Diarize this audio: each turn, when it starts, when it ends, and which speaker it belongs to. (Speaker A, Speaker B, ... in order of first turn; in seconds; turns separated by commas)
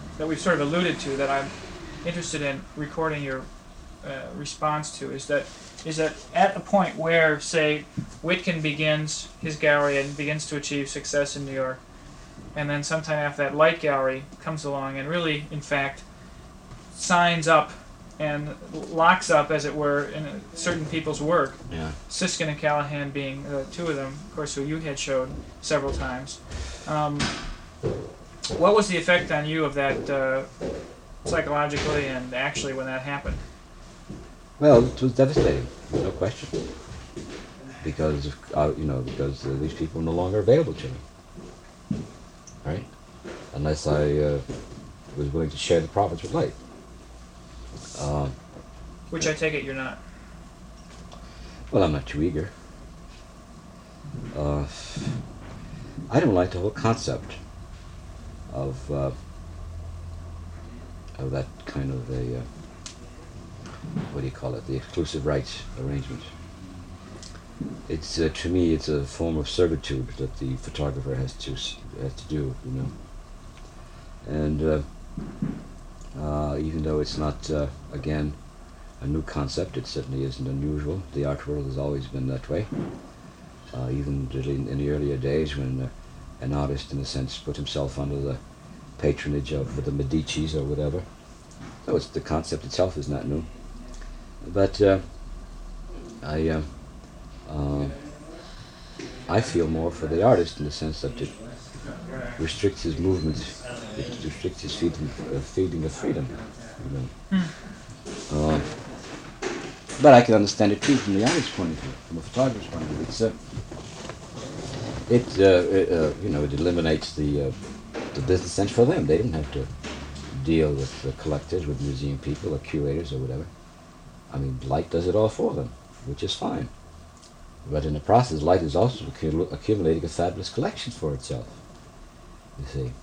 Speaker A: 0.2-3.5, Speaker A: 4.0-11.8, Speaker A: 12.5-16.1, Speaker A: 16.9-27.3, Speaker B: 21.7-21.9, Speaker A: 28.6-30.5, Speaker A: 31.2-33.4, Speaker B: 34.6-36.5, Speaker B: 37.8-41.0, Speaker B: 43.5-44.4, Speaker B: 45.1-46.6, Speaker B: 48.0-48.4, Speaker A: 49.1-50.0, Speaker B: 51.7-52.5, Speaker B: 54.3-55.2, Speaker B: 56.1-57.4, Speaker B: 58.5-59.1, Speaker B: 61.2-62.5, Speaker B: 64.1-66.3, Speaker B: 67.9-73.0, Speaker B: 74.2-74.9, Speaker B: 76.1-78.4, Speaker B: 79.0-82.7, Speaker B: 83.7-88.4, Speaker B: 89.0-91.1, Speaker B: 91.8-93.5, Speaker B: 94.4-95.6, Speaker B: 96.2-98.1, Speaker B: 99.3-101.4, Speaker B: 102.4-107.1, Speaker B: 108.3-108.7, Speaker B: 110.0-113.3, Speaker B: 115.1-117.6, Speaker B: 118.1-119.7, Speaker B: 120.3-123.5, Speaker B: 124.3-126.7, Speaker B: 127.7-131.6, Speaker B: 132.6-132.9